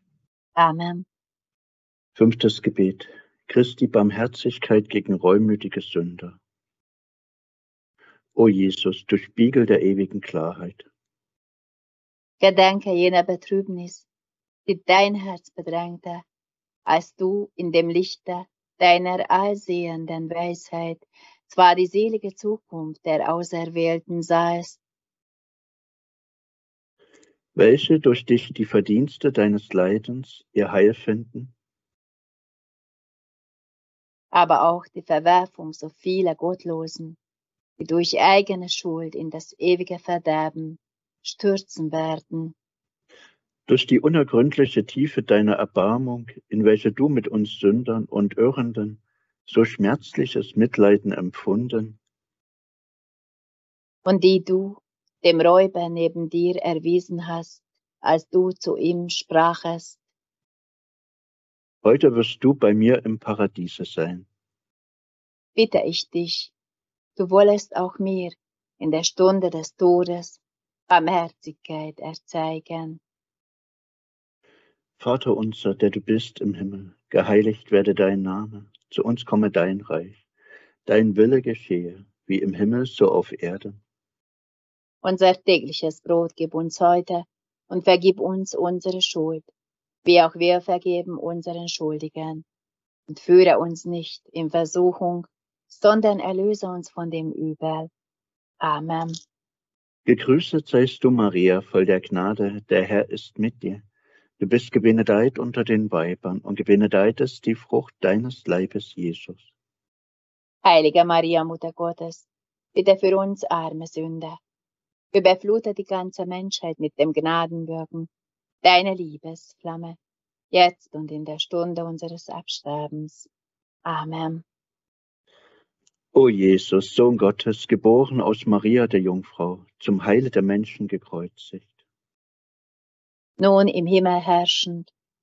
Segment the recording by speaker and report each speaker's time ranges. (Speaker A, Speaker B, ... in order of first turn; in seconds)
Speaker A: 0.6-1.0, 12.4-14.1, 14.7-16.2, 16.9-24.8, 34.3-37.2, 37.8-42.5, 54.0-60.0, 65.5-66.5, 67.2-73.0, 85.0-89.5, 90.0-92.4, 93.1-97.9, 98.6-99.1, 110.6-114.4, 115.1-118.1, 118.6-120.0, 120.5-123.3, 123.8-124.4, 133.4-134.9
Speaker B: 2.1-6.4, 8.3-10.8, 27.5-31.5, 43.7-52.0, 61.8-64.3, 75.0-80.2, 80.8-83.8, 100.0-103.8, 104.4-109.5, 126.1-131.7